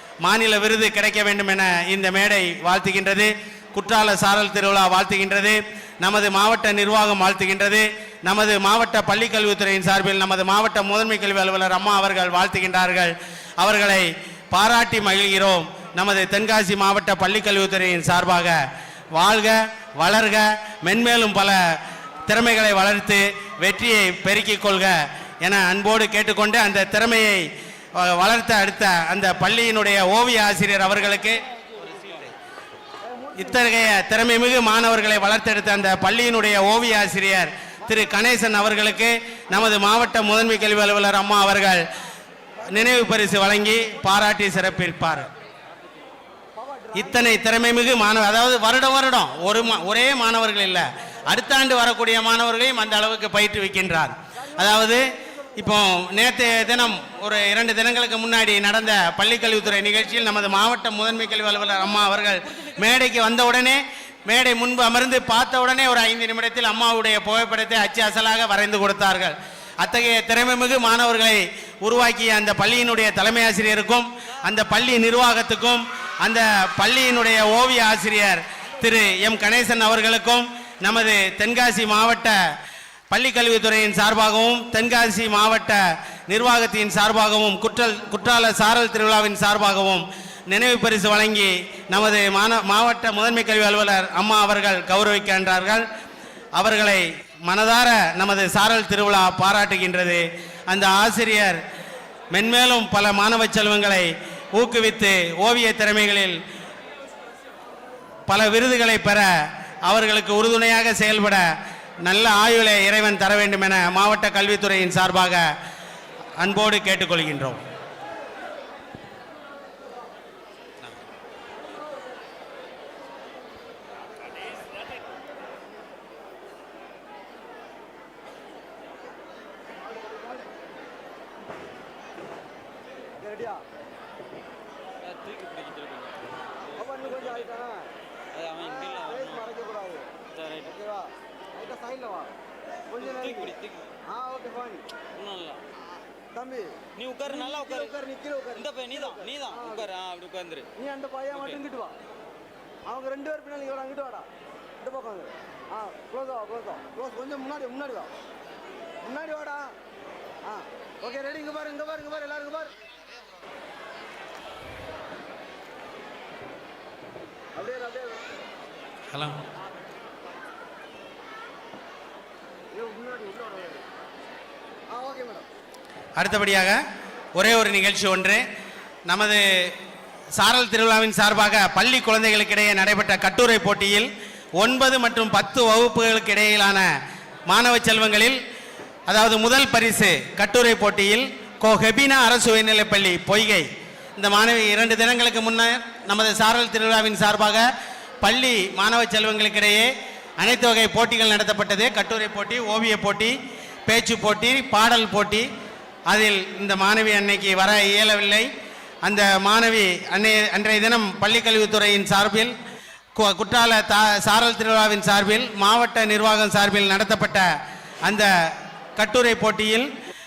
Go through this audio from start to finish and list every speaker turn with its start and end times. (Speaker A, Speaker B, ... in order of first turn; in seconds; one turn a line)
Speaker A: 0.2-18.6
Speaker A: 19.1-31.4
Speaker A: 33.3-41.9
Speaker A: 42.6-45.3
Speaker A: 46.9-82.4
Speaker A: 83.1-95.9
Speaker A: 96.6-101.6
Speaker A: 102.3-106.4
Speaker A: 108.3-109.3
Speaker A: 109.8-111.5
Speaker A: 112.0-115.5
Speaker A: 116.4-117.6
Speaker B: 133.2-133.6
Speaker C: 135.1-137.5
Speaker B: 137.1-137.9
Speaker C: 138.4-139.4
Speaker B: 139.2-140.1
Speaker C: 140.4-140.8
Speaker B: 140.8-142.3
Speaker C: 143.0-143.9
Speaker B: 143.1-143.5
Speaker B: 144.2-144.9
Speaker C: 145.2-145.6
Speaker B: 146.4-146.8
Speaker C: 147.0-148.0
Speaker B: 147.5-148.6
Speaker C: 148.6-150.7
Speaker B: 150.8-151.9
Speaker B: 152.9-154.3
Speaker B: 154.8-158.1
Speaker B: 159.0-159.8
Speaker B: 160.5-162.7
Speaker B: 167.6-168.2
Speaker A: 169.1-169.4
Speaker B: 172.8-173.8
Speaker B: 174.9-175.5
Speaker A: 176.2-176.8
Speaker A: 177.4-178.4
Speaker A: 179.1-179.7
Speaker A: 180.4-186.9
Speaker A: 187.5-188.4
Speaker A: 189.1-197.7
Speaker A: 198.2-203.4
Speaker A: 203.9-205.5
Speaker A: 206.1-208.5
Speaker A: 209.0-212.6
Speaker A: 213.2-217.5
Speaker A: 219.0-219.9